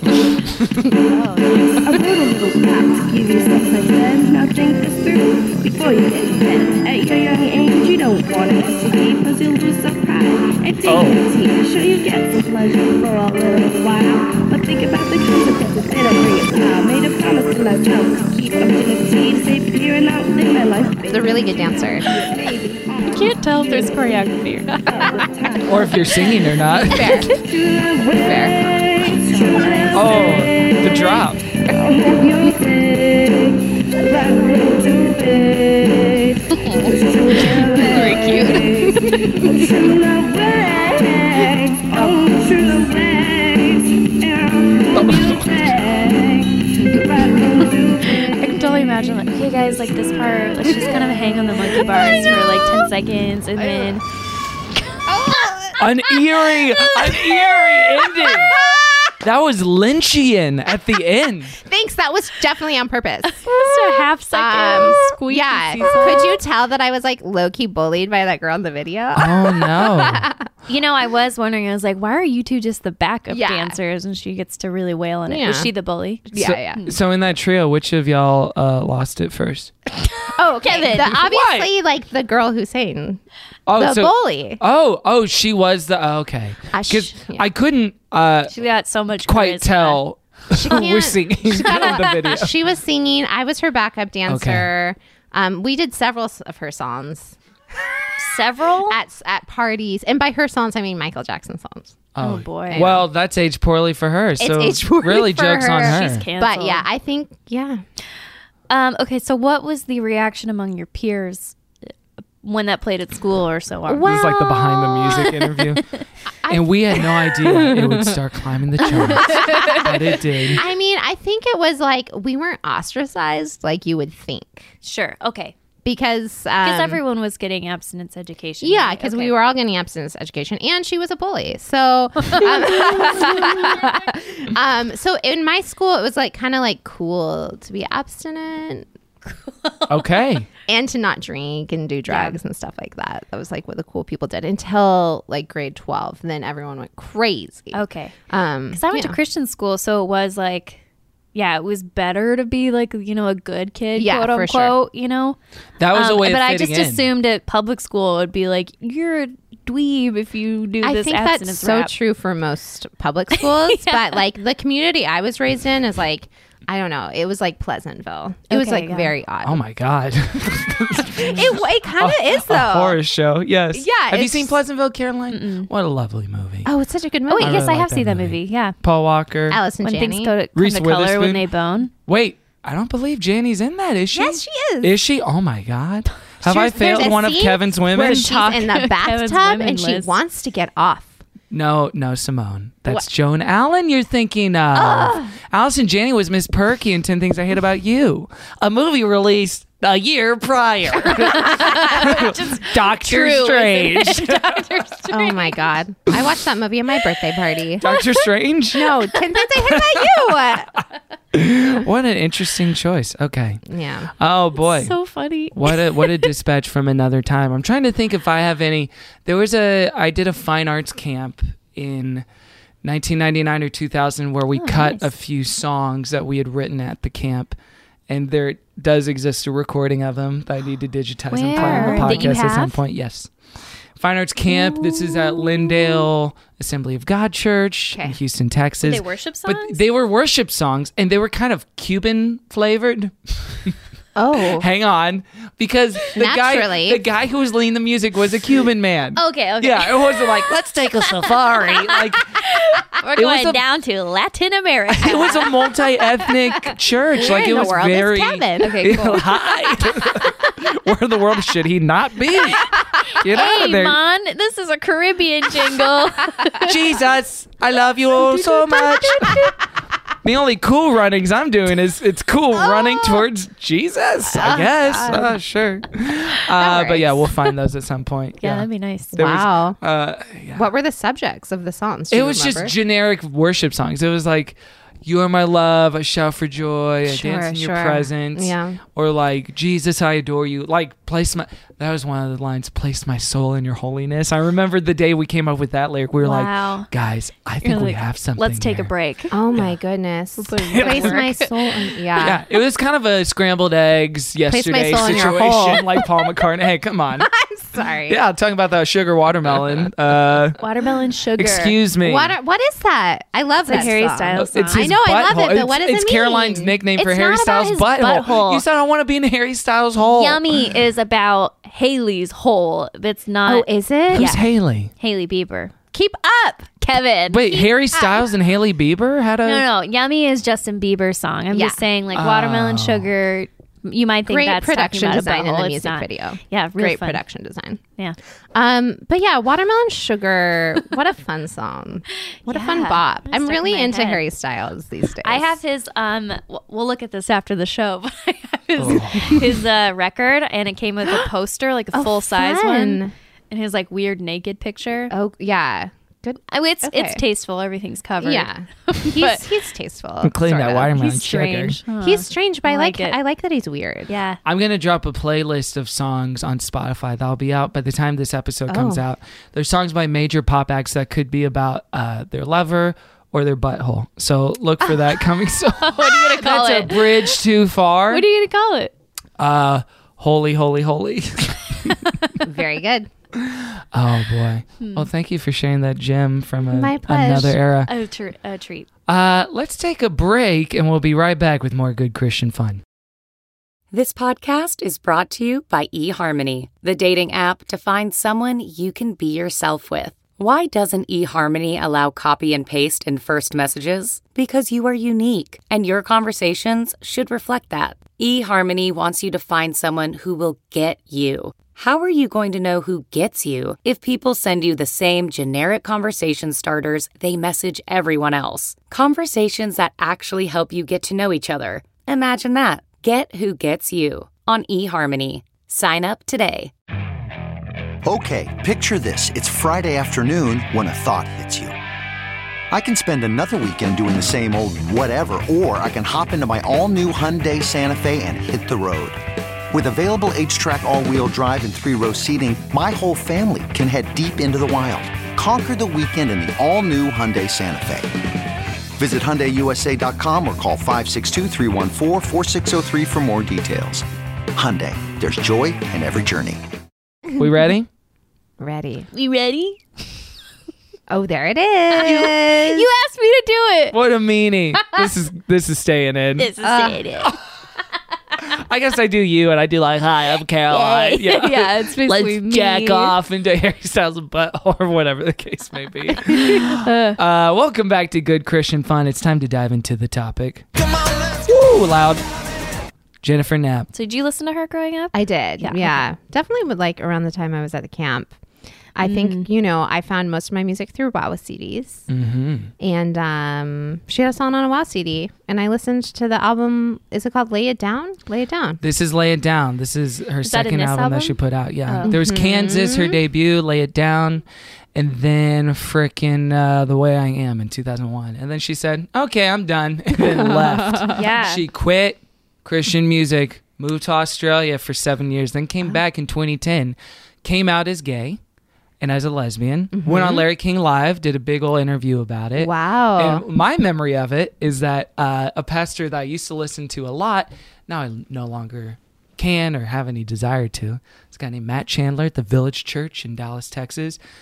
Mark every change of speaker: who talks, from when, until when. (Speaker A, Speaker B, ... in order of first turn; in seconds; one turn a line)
Speaker A: 1.1-1.8
Speaker B: 1.8-24.3
Speaker C: 10.8-11.2
Speaker D: 21.1-22.1
Speaker A: 23.1-24.8
Speaker B: 24.9-26.4
Speaker C: 25.6-27.3
Speaker D: 26.9-27.4
Speaker B: 26.9-31.1
Speaker D: 28.2-29.5
Speaker C: 29.9-31.4
Speaker B: 31.7-48.4
Speaker D: 36.6-36.9
Speaker D: 37.5-39.6
Speaker C: 45.0-45.5
Speaker A: 48.1-54.0
Speaker D: 53.6-53.9
Speaker D: 55.1-59.1
Speaker C: 55.8-58.5
Speaker C: 59.2-61.6
Speaker D: 61.6-70.5
Speaker A: 63.3-66.4
Speaker C: 69.1-70.3
Speaker A: 70.7-77.0
Speaker D: 73.3-73.8
Speaker D: 75.3-75.7
Speaker D: 76.3-76.8
Speaker C: 76.3-79.7
Speaker A: 80.2-81.2
Speaker D: 80.3-83.2
Speaker C: 81.1-81.7
Speaker C: 83.7-88.5
Speaker D: 83.7-84.6
Speaker D: 86.7-87.5
Speaker A: 88.5-90.0
Speaker C: 89.2-92.5
Speaker D: 90.5-97.9
Speaker A: 91.7-92.2
Speaker C: 94.3-94.7
Speaker A: 98.2-99.0
Speaker D: 98.8-102.1
Speaker C: 102.1-106.2
Speaker A: 102.2-102.9
Speaker D: 102.7-103.0
Speaker D: 104.4-107.8
Speaker A: 105.8-106.9
Speaker A: 108.7-111.6
Speaker A: 112.4-114.1
Speaker D: 113.9-115.5
Speaker C: 114.0-115.8
Speaker D: 116.4-118.2
Speaker C: 116.5-120.6
Speaker D: 118.8-124.7
Speaker A: 119.1-119.9
Speaker A: 124.8-125.5
Speaker D: 125.8-127.0
Speaker A: 126.6-129.3
Speaker D: 128.6-138.9
Speaker A: 132.2-133.9
Speaker A: 139.6-139.9
Speaker C: 139.9-140.5
Speaker D: 140.7-149.2
Speaker A: 142.1-142.4
Speaker A: 147.7-148.2
Speaker A: 148.7-150.8
Speaker A: 151.3-155.4
Speaker D: 153.9-154.7
Speaker C: 155.8-157.1
Speaker A: 155.9-161.9
Speaker D: 160.8-169.6
Speaker A: 163.3-164.2
Speaker A: 168.5-169.1
Speaker C: 169.4-176.7
Speaker D: 171.0-173.0
Speaker A: 171.2-171.4
Speaker D: 173.7-174.6
Speaker A: 175.3-175.7
Speaker D: 176.6-177.8
Speaker A: 177.3-178.8
Speaker C: 177.4-179.6
Speaker D: 179.5-180.3
Speaker A: 179.8-181.9
Speaker C: 180.5-181.4
Speaker C: 182.1-188.3
Speaker D: 184.1-184.9
Speaker D: 186.4-191.2
Speaker A: 187.9-190.1
Speaker C: 191.5-204.7
Speaker D: 194.7-195.3
Speaker A: 201.2-205.6
Speaker D: 205.1-208.0
Speaker C: 207.8-209.0
Speaker D: 208.7-210.7
Speaker C: 209.6-210.4
Speaker C: 211.3-213.6
Speaker D: 213.7-214.1
Speaker C: 214.2-214.9
Speaker A: 214.6-216.3
Speaker C: 215.5-222.2
Speaker C: 222.8-227.6
Speaker A: 224.6-225.1
Speaker C: 228.1-233.3
Speaker A: 231.3-232.8
Speaker D: 231.5-232.4
Speaker C: 234.0-243.7
Speaker D: 237.9-238.2
Speaker A: 238.8-239.8
Speaker D: 244.2-244.7
Speaker C: 244.5-252.3
Speaker D: 246.1-247.0
Speaker A: 249.2-250.5
Speaker A: 251.2-255.5
Speaker C: 253.2-253.6
Speaker C: 255.0-264.0
Speaker D: 257.1-259.4
Speaker A: 257.3-259.2
Speaker A: 263.3-266.7
Speaker C: 266.6-269.5
Speaker D: 268.2-269.5
Speaker C: 270.2-280.7
Speaker D: 272.5-273.2
Speaker D: 274.3-275.4
Speaker D: 276.5-277.4
Speaker A: 278.4-279.2
Speaker D: 279.1-279.8
Speaker D: 280.5-282.7
Speaker C: 282.1-298.9
Speaker D: 287.1-288.8
Speaker A: 296.2-296.9
Speaker A: 297.6-299.4
Speaker D: 299.3-302.4
Speaker A: 300.4-301.9
Speaker C: 300.7-301.2
Speaker C: 302.2-307.3
Speaker D: 304.5-306.3
Speaker D: 307.2-308.2
Speaker C: 308.1-310.6
Speaker A: 310.6-311.8
Speaker C: 311.4-312.3
Speaker D: 312.0-316.8
Speaker A: 313.6-314.9
Speaker C: 314.4-320.6
Speaker A: 317.0-318.6
Speaker A: 320.0-324.4
Speaker D: 323.4-324.4
Speaker C: 324.1-324.9
Speaker A: 325.0-325.7
Speaker D: 325.9-326.8
Speaker A: 326.8-327.7
Speaker C: 327.3-329.6
Speaker D: 327.9-328.2
Speaker A: 329.4-337.2
Speaker D: 331.5-331.8
Speaker C: 332.1-333.1
Speaker D: 334.2-337.8
Speaker D: 338.5-345.6
Speaker A: 342.4-344.2
Speaker A: 345.2-355.1
Speaker C: 348.8-349.4
Speaker D: 351.9-353.1
Speaker D: 355.1-357.2
Speaker A: 356.5-359.4
Speaker D: 358.2-361.0
Speaker C: 360.2-361.8
Speaker A: 360.9-363.2
Speaker D: 361.9-364.1
Speaker A: 364.1-364.4
Speaker C: 364.4-378.2
Speaker D: 368.7-369.0
Speaker A: 375.8-377.4
Speaker A: 378.1-378.9
Speaker C: 379.4-382.1
Speaker D: 382.4-383.1
Speaker C: 383.4-387.9
Speaker A: 384.8-385.1
Speaker D: 386.6-387.6
Speaker A: 387.9-388.9
Speaker C: 389.1-392.8
Speaker E: 393.9-426.7
Speaker F: 428.0-431.7
Speaker F: 432.7-439.2
Speaker F: 439.7-448.1
Speaker F: 449.0-456.6
Speaker C: 457.4-457.9
Speaker D: 458.6-459.1
Speaker A: 459.1-459.8
Speaker D: 461.1-462.9
Speaker A: 461.9-464.0
Speaker C: 463.9-466.5
Speaker A: 466.4-467.4
Speaker D: 466.6-467.0
Speaker C: 468.4-480.7
Speaker A: 470.7-473.1
Speaker A: 476.1-477.2
Speaker C: 481.2-482.2
Speaker C: 483.2-483.9
Speaker A: 483.9-486.0
Speaker D: 485.1-488.4
Speaker D: 488.9-492.1
Speaker A: 489.0-489.5
Speaker C: 492.1-492.7
Speaker D: 492.8-498.8
Speaker C: 498.8-504.4
Speaker A: 500.4-502.1
Speaker D: 502.0-503.2
Speaker C: 504.9-518.4
Speaker D: 510.1-511.2
Speaker A: 511.1-511.6
Speaker C: 519.0-534.2
Speaker D: 519.9-520.5
Speaker D: 522.6-523.4